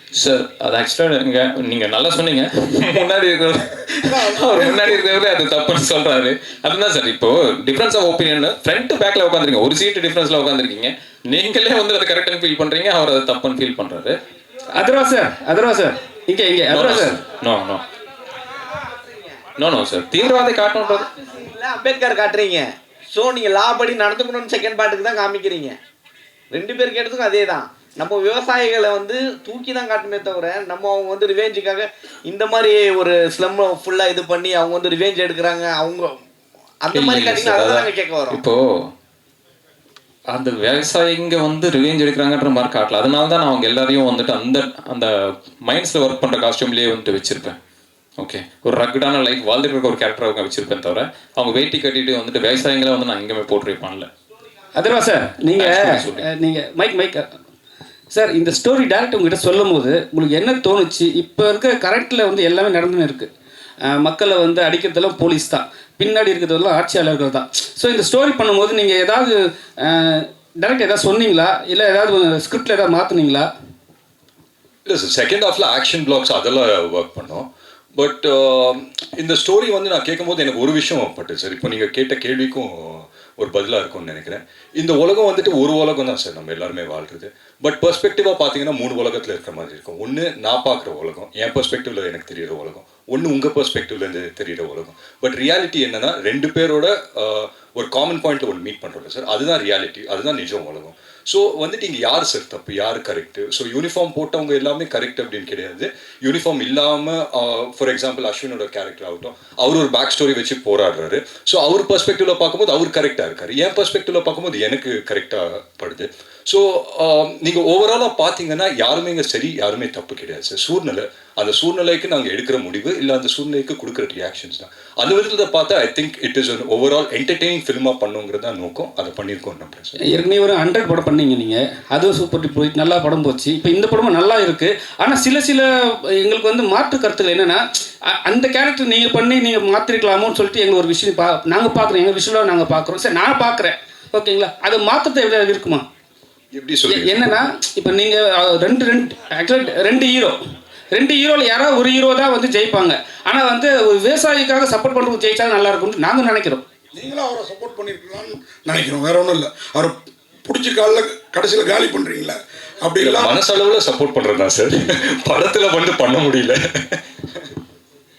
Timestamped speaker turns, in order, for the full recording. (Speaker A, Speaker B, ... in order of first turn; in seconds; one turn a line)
Speaker A: 0.1-14.2
Speaker B: 4.1-5.0
Speaker C: 14.7-17.2
Speaker A: 16.7-17.8
Speaker D: 18.9-19.4
Speaker A: 19.6-21.1
Speaker D: 20.8-25.8
Speaker D: 26.5-36.2
Speaker D: 36.8-38.4
Speaker A: 36.9-38.6
Speaker A: 40.3-47.6
Speaker A: 48.2-54.1
Speaker C: 54.7-57.3
Speaker A: 55.5-56.2
Speaker C: 58.1-63.3
Speaker C: 63.9-73.5
Speaker E: 74.8-130.0
Speaker C: 130.0-145.8
Speaker E: 146.5-147.2
Speaker C: 146.9-150.4
Speaker C: 150.9-156.6
Speaker B: 156.9-163.4
Speaker E: 163.0-167.0